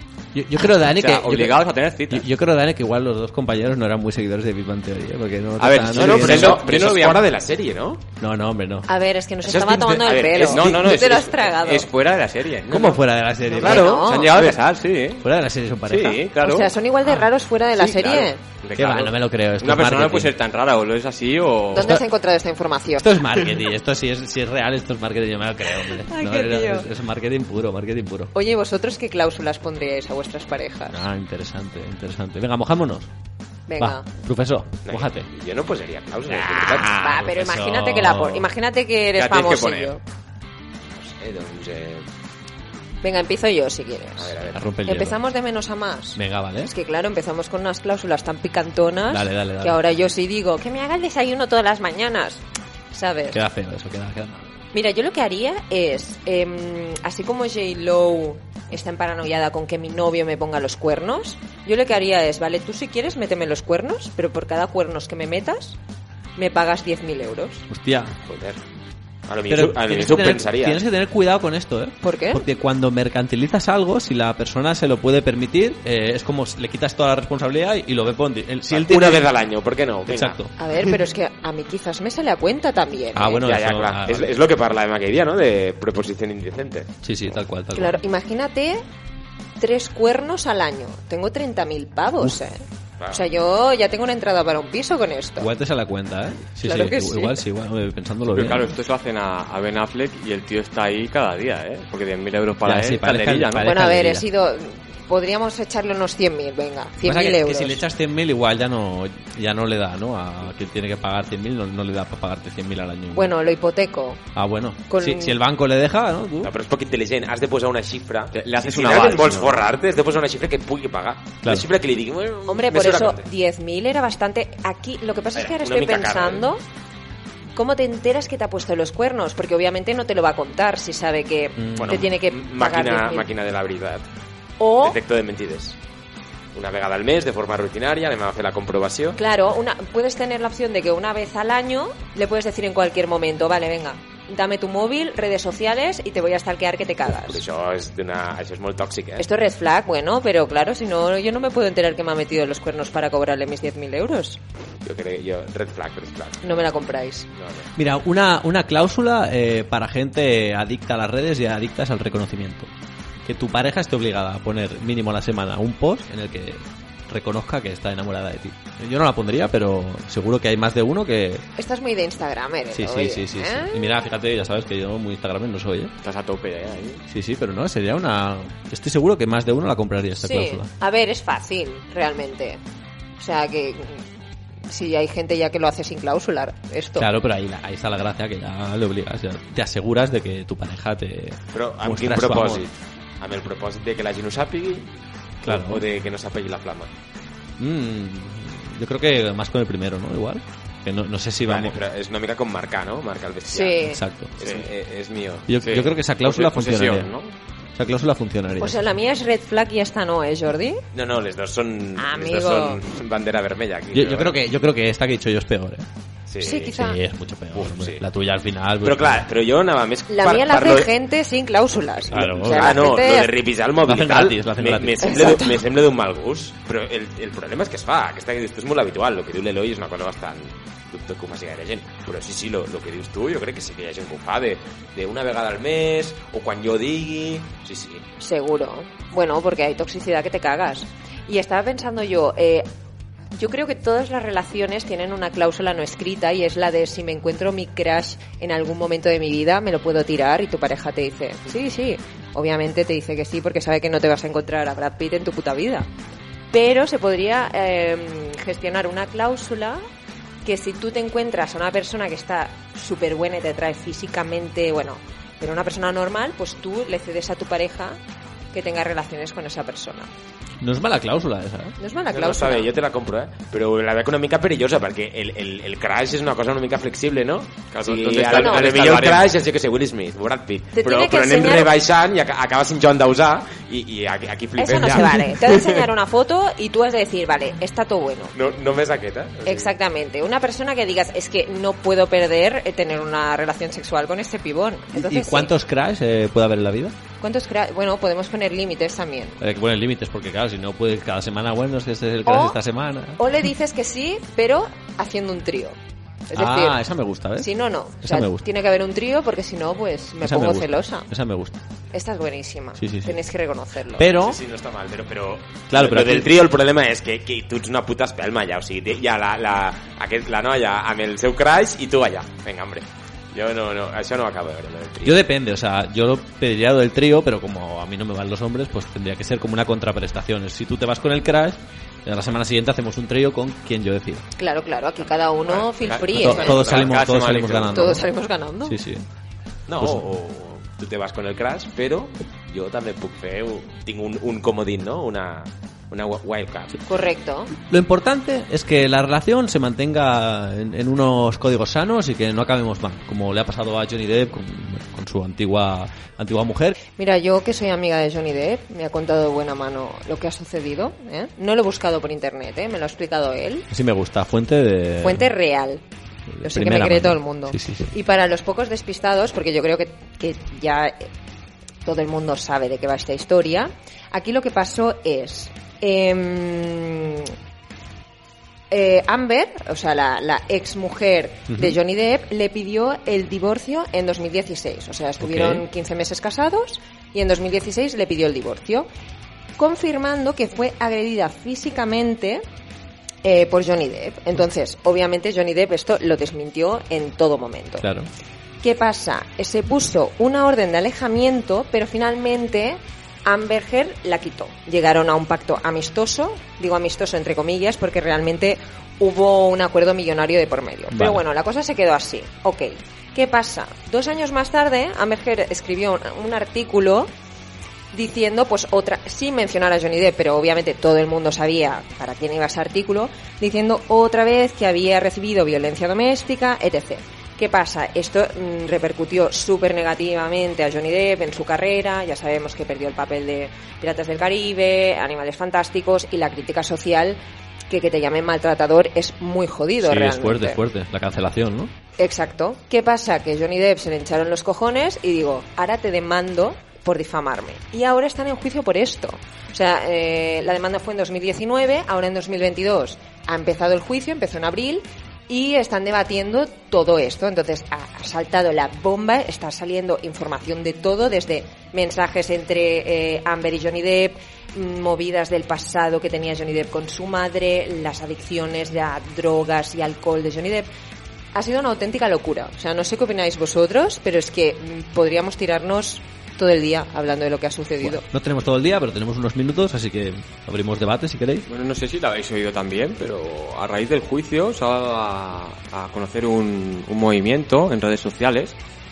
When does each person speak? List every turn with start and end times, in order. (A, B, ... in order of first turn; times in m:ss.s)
0:00.3-0:06.6 A
0:00.7-0:02.2 B
0:05.6-0:07.2 B
0:05.9-0:08.0 C
0:08.2-0:08.9 A
0:08.9-0:11.9 D
0:09.4-0:11.0 C
0:10.4-0:13.0 B
0:12.7-0:14.5 A
0:13.5-0:14.4 D
0:13.6-0:15.2 B
0:14.3-0:14.6 C
0:15.2-0:16.2 A
0:15.9-0:16.7 B
0:16.4-0:18.4 D
0:17.8-0:22.0 B
0:18.8-0:20.3 A
0:21.7-0:23.5 D
0:21.8-0:22.0 A
0:23.0-0:28.3 A
0:25.9-0:26.9 D
0:28.3-0:31.0 D
0:30.9-0:33.1 A
0:33.7-0:34.0 D
0:33.8-0:35.3 A
0:34.8-0:36.9 C
0:36.7-0:40.0 D
0:36.7-0:38.5 A
0:39.2-0:40.0 B
0:40.9-0:42.1 C
0:43.0-0:53.4 D
0:44.2-0:44.7 C
0:44.5-0:45.2 A
0:46.2-0:46.7 A
0:49.1-0:49.8 A
0:53.3-0:54.5 A
0:54.7-1:05.8 D
1:06.4-1:07.7 D
1:07.7-1:08.2 A
1:08.3-1:08.6 C
1:09.3-1:10.8 C
1:09.5-1:19.3 A
1:12.0-1:12.4 D
1:18.7-1:20.4 C
1:20.1-1:20.5 A
1:20.6-1:23.4 D
1:23.2-1:24.4 A
1:23.4-1:27.0 C
1:27.0-1:28.0 A
1:27.8-1:28.8 D
1:29.6-1:35.5 D
1:35.4-1:38.7 A
1:36.6-1:37.4 D
1:38.3-1:43.7 B
1:42.6-1:44.2 A
1:43.6-1:47.8 D
1:47.0-1:53.3 A
1:53.2-1:54.2 D
1:54.4-1:56.5 A
1:54.9-1:55.4 D
1:56.4-2:03.3 C
1:58.3-1:59.6 B
2:02.5-2:06.6 D
2:05.4-2:06.5 C
2:07.6-2:13.3 D
2:11.6-2:12.1 A
2:11.8-2:14.1 C
2:14.6-2:15.0 D
2:14.8-2:15.8 C
2:16.5-2:19.2 C
2:19.2-2:27.4 D
2:27.2-2:29.3 C
2:29.2-2:34.4 D
2:34.8-2:36.8 C
2:36.4-2:37.3 D
2:37.3-2:37.7 C
2:37.8-2:42.7 A
2:43.3-2:51.4 A
2:51.6-2:53.9 D
2:52.7-2:55.9 A
2:56.0-2:57.0 B
2:57.1-3:00.7 A
3:00.2-3:02.6 D
3:03.2-3:04.0 D
3:04.7-3:07.1 D
3:07.0-3:12.7 A
3:11.5-3:14.9 C
3:15.4-3:15.8 A
3:15.4-3:16.9 C
3:17.6-3:21.8 A
3:21.5-3:25.5 C
3:23.5-3:24.0 D
3:23.9-3:24.3 A
3:24.4-3:24.7 B
3:25.5-3:27.1 A
3:25.6-3:27.3 B
3:27.8-3:28.8 A
3:28.6-3:30.8 D
3:30.9-3:34.4 C
3:32.0-3:32.8 D
3:33.9-3:35.9 A
3:36.3-3:36.8 C
3:36.4-3:37.0 D
3:36.7-3:39.2 A
3:37.5-3:38.0 C
3:38.8-3:40.9 C
3:40.1-3:43.3 D
3:42.1-3:58.0 C
3:42.1-3:42.7 A
3:43.8-3:45.2 A
3:45.0-3:45.6 D
3:58.2-4:02.7 D
4:03.4-4:15.9 D
4:16.5-4:19.8 D
4:20.4-4:28.0 D
4:28.5-4:30.1 D
4:30.6-4:31.8 A
4:31.8-4:32.7 D
4:32.1-4:45.8 C
4:37.7-4:39.3 B
4:38.3-4:38.8 D
4:40.7-4:41.7 D
4:44.6-4:48.4 D
4:48.3-4:49.8 C
4:49.5-4:55.5 D
4:54.9-4:57.0 A
4:57.2-4:59.4 D
4:59.4-5:03.2 A
5:02.3-5:02.6 D
5:03.2-5:05.8 D
5:06.3-5:06.8 D
5:06.4-5:07.5 A
5:07.4-5:11.1 D
5:08.0-5:08.4 A
5:10.2-5:11.6 A
5:11.9-5:14.1 D
5:12.8-5:13.1 A
5:14.0-5:14.4 A
5:14.2-5:25.2 C
5:15.7-5:16.3 A
5:25.0-5:34.2 A
5:34.4-5:36.7 D
5:35.5-5:37.0 C
5:35.8-5:38.0 B
5:36.2-5:38.0 A
5:37.7-5:38.8 D
5:38.6-5:39.0 A
5:39.7-5:46.8 C
5:39.8-5:40.1 A
5:46.9-5:47.5 D
5:47.6-5:56.8 A
5:57.0-6:03.7 D
6:03.7-6:05.3 A
6:05.0-6:05.8 D
6:06.4-6:07.9 A
6:06.4-6:11.1 D
6:11.8-6:17.3 D
6:18.7-6:28.9 D
6:21.5-6:21.8 A
6:25.2-6:25.6 A
6:29.6-6:32.4 D
6:33.2-6:37.8 D
6:37.8-6:38.1 A
6:38.6-6:57.1 D
6:50.9-6:51.2 A
6:57.9-7:20.6 D
7:19.8-7:21.7 A
7:22.0-7:50.7 D
7:51.3-7:58.0 D
7:57.8-8:01.5 A
8:01.5-8:08.6 B